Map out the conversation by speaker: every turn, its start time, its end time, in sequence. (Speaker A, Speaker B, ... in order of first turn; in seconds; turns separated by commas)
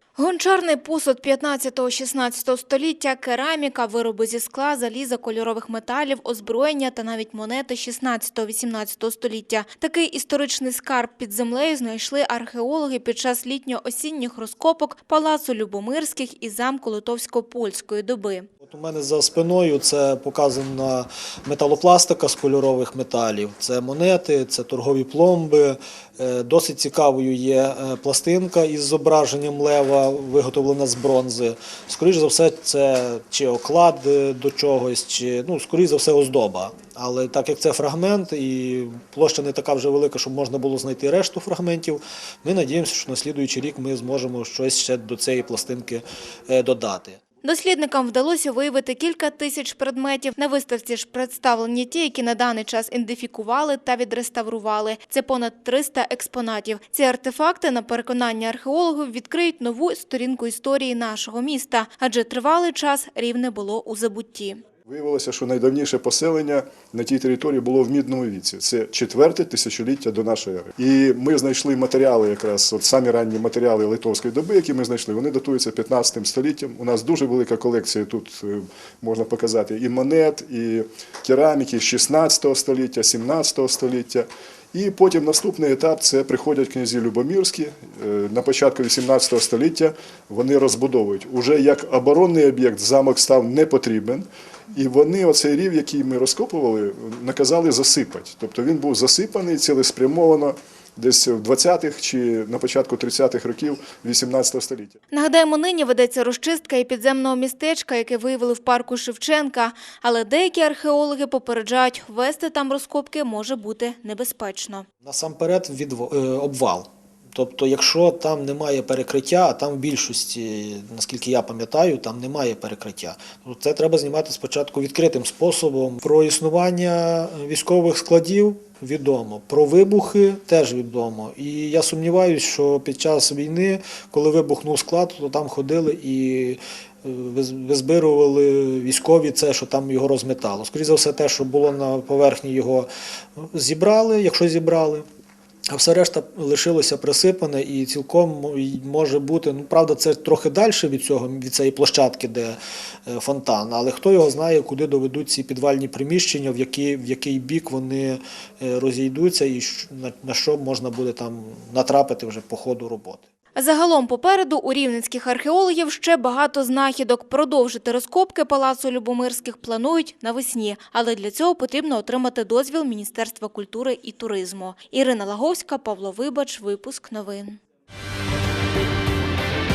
Speaker A: 0.2-18.5, Speaker B: 18.6-47.2, Speaker A: 47.4-64.6, Speaker C: 64.9-104.9, Speaker A: 105.1-114.8, Speaker B: 115.0-142.9, Speaker B: 143.5-145.1, Speaker B: 145.7-163.2, Speaker A: 163.6-177.6